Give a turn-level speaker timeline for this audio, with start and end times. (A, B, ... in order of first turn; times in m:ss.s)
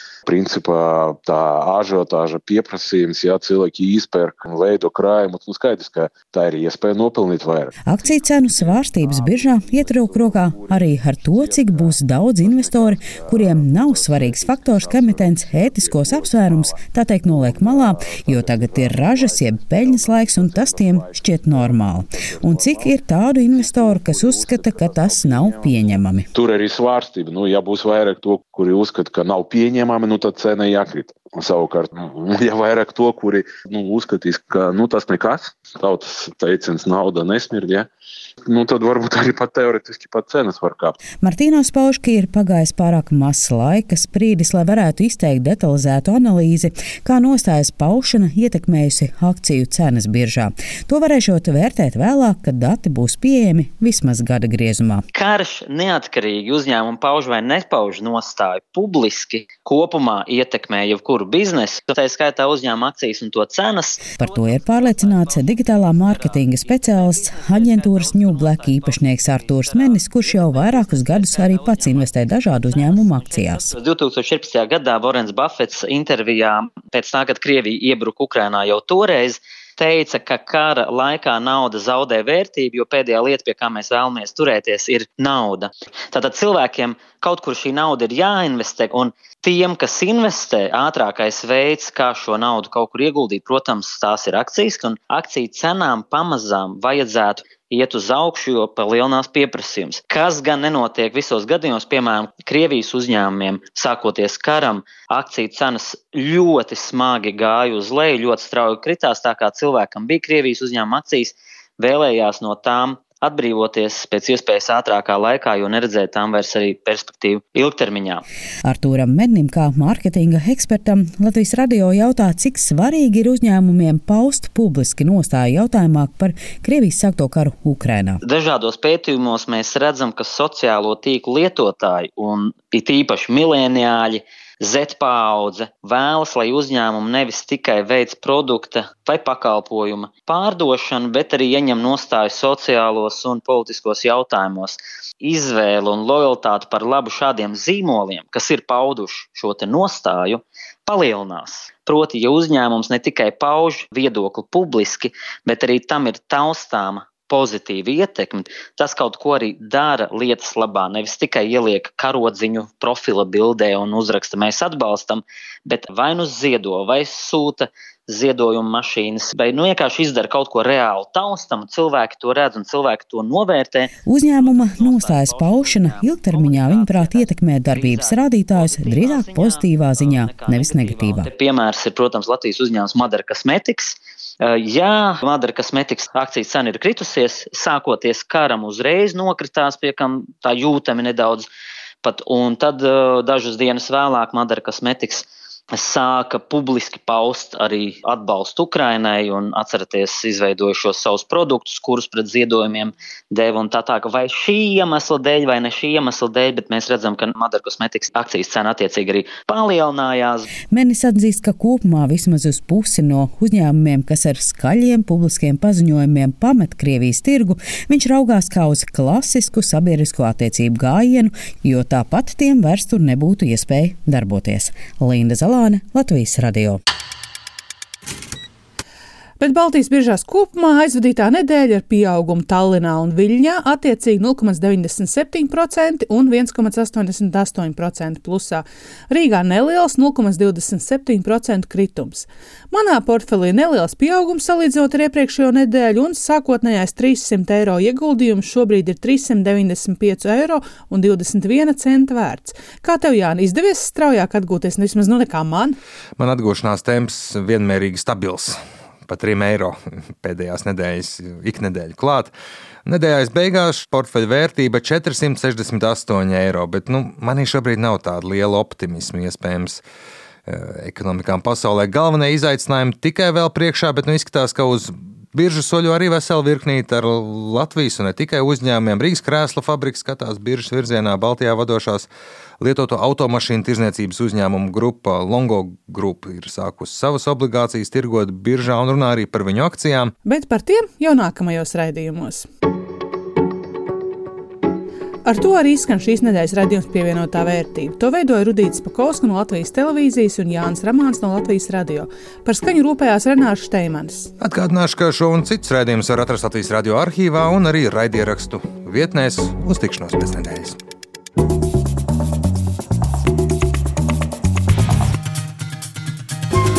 0:00.2-0:37.9 A
0:07.9-0:26.3 B
0:38.4-0:41.0 A
0:41.2-0:55.0 B
0:55.1-1:58.2 C
1:04.2-1:13.8 B
1:58.6-2:08.2 B
2:08.2-3:11.5 C
2:54.0-3:01.3 B
3:12.0-3:30.4 C
3:30.7-3:46.8 B
3:49.4-4:15.8 D
4:16.2-4:22.3 E
4:22.8-4:29.8 E
4:30.5-4:50.1 E
4:50.2-4:52.5 D
4:55.2-5:04.3 D
5:04.4-5:10.8 E